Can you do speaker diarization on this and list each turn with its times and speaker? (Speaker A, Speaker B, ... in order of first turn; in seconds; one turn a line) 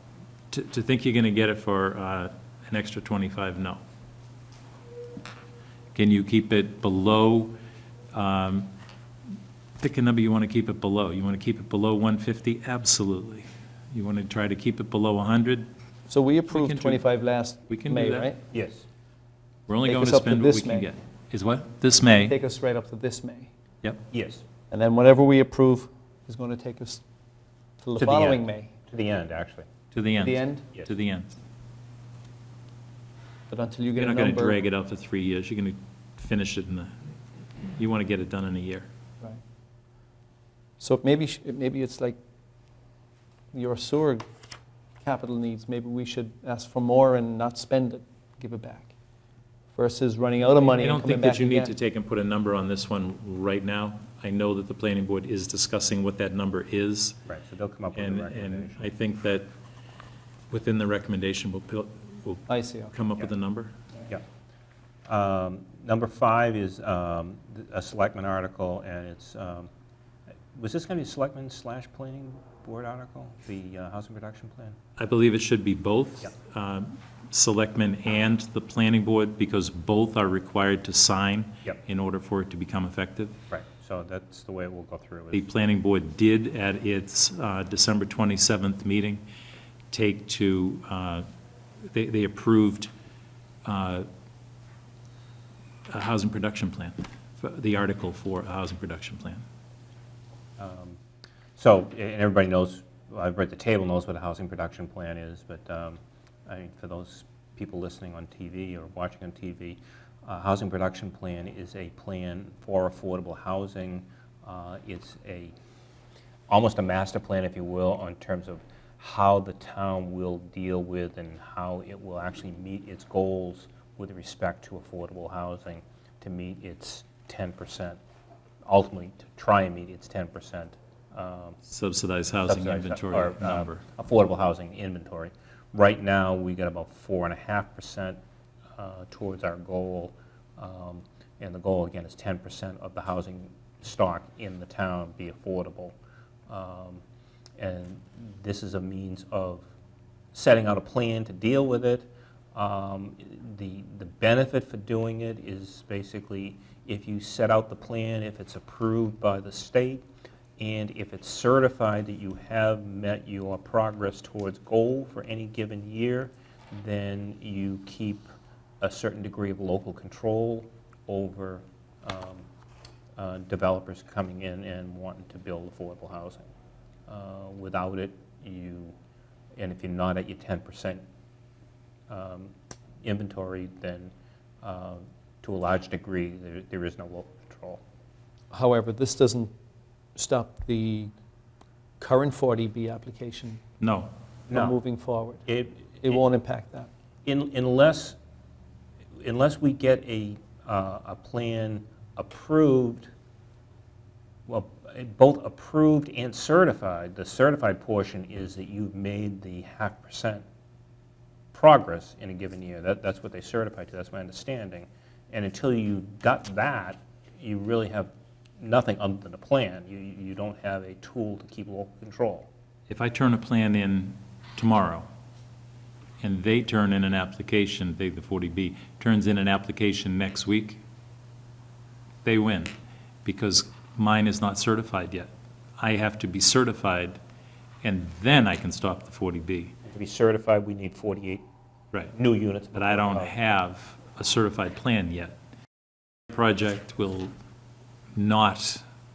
Speaker A: 0.5-3.8
Speaker A: 6.0-7.5
Speaker A: 8.1-8.7
Speaker A: 9.8-15.7
Speaker B: 16.1-18.4
Speaker A: 16.5-17.0
Speaker A: 17.7-18.3
Speaker C: 18.5-18.9
Speaker A: 19.7-22.4
Speaker B: 19.9-20.9
Speaker B: 22.0-23.5
Speaker C: 24.1-24.4
Speaker B: 24.7-27.0
Speaker B: 27.8-28.7
Speaker C: 28.0-29.7
Speaker A: 29.9-31.4
Speaker B: 30.2-30.7
Speaker B: 33.5-34.6
Speaker A: 34.0-37.0
Speaker A: 37.7-38.9
Speaker B: 40.8-42.2
Speaker B: 43.5-44.3
Speaker B: 45.0-48.9
Speaker B: 49.8-51.8
Speaker A: 50.6-57.2
Speaker C: 57.3-58.9
Speaker A: 58.0-59.5
Speaker A: 60.5-63.7
Speaker B: 62.5-63.0
Speaker C: 65.1-69.7
Speaker C: 70.5-74.8
Speaker A: 75.0-83.4
Speaker C: 83.5-85.5
Speaker A: 85.3-89.2
Speaker A: 89.9-91.3
Speaker A: 91.9-92.9
Speaker A: 93.6-94.1
Speaker A: 95.9-99.5
Speaker C: 100.6-101.0
Speaker C: 101.6-115.5
Speaker C: 116.5-128.0
Speaker C: 128.7-131.6
Speaker A: 131.7-133.8
Speaker C: 132.5-138.2
Speaker C: 138.8-146.0
Speaker C: 146.5-147.0
Speaker C: 147.6-149.7
Speaker C: 150.3-160.1
Speaker C: 160.6-168.3
Speaker C: 168.8-172.4
Speaker C: 173.2-176.5
Speaker C: 177.1-178.9
Speaker C: 179.6-181.0
Speaker C: 182.1-182.5
Speaker C: 183.0-187.8
Speaker B: 188.5-189.5
Speaker B: 190.2-191.1
Speaker B: 192.0-193.6
Speaker A: 193.8-194.1
Speaker C: 194.5-194.8
Speaker B: 194.5-196.9
Speaker C: 195.5-196.2
Speaker C: 197.2-198.2
Speaker C: 199.2-203.1
Speaker C: 204.5-210.4
Speaker C: 211.5-222.5
Speaker A: 222.9-225.1
Speaker A: 226.2-230.8
Speaker A: 232.2-232.7
Speaker A: 233.2-237.2
Speaker A: 237.8-239.8
Speaker C: 239.9-241.4
Speaker C: 242.1-243.4
Speaker A: 242.7-245.4
Speaker A: 246.3-247.3
Speaker A: 248.2-248.8